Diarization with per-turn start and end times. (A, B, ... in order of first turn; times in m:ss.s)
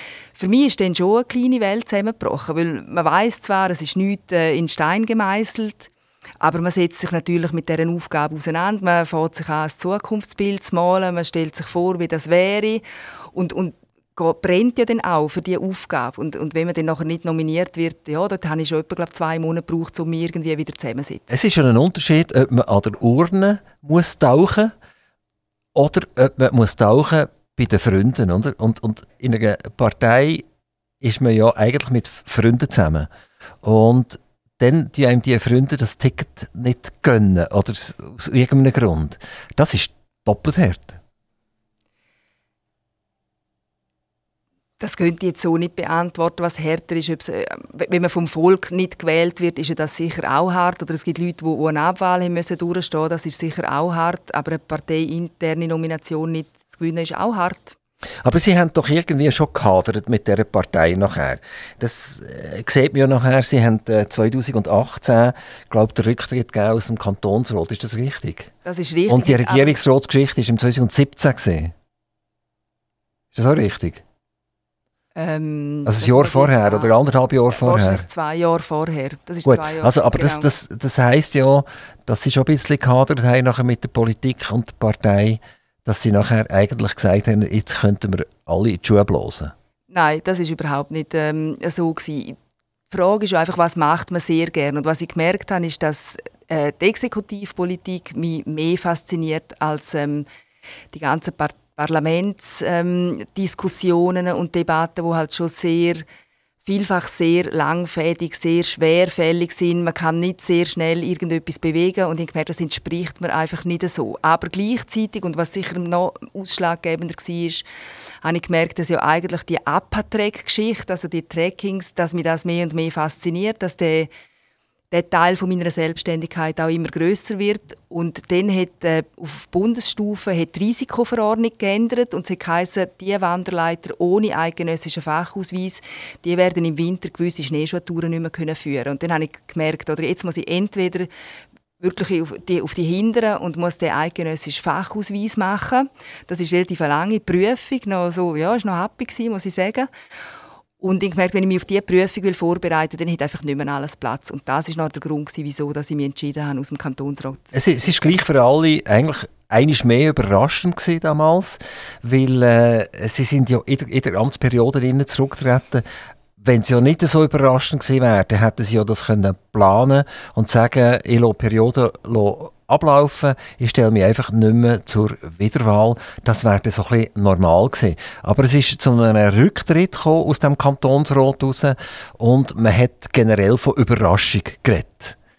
0:00.3-0:21.3 A
0:21.3-0:24.7 B
0:25.7-0:30.4 B
0:31.0-0:33.1 B
0:33.6-0:41.0 B
0:44.8-0:57.8 A
0:58.2-1:08.5 B
1:08.6-1:09.8 A
1:09.1-1:11.7 B
1:13.3-1:14.0 B
1:15.1-1:16.9 A
1:15.8-1:18.0 B
1:17.5-1:20.5 A
1:19.4-1:29.5 B
1:29.9-1:32.4 A
1:32.9-1:40.2 A
1:40.9-1:46.0 A
1:46.6-1:57.6 A
1:58.2-2:04.1 A
2:04.9-2:21.1 A
2:21.8-2:29.9 A
2:30.8-2:37.6 A
2:37.5-2:45.8 B
2:46.4-3:05.2 B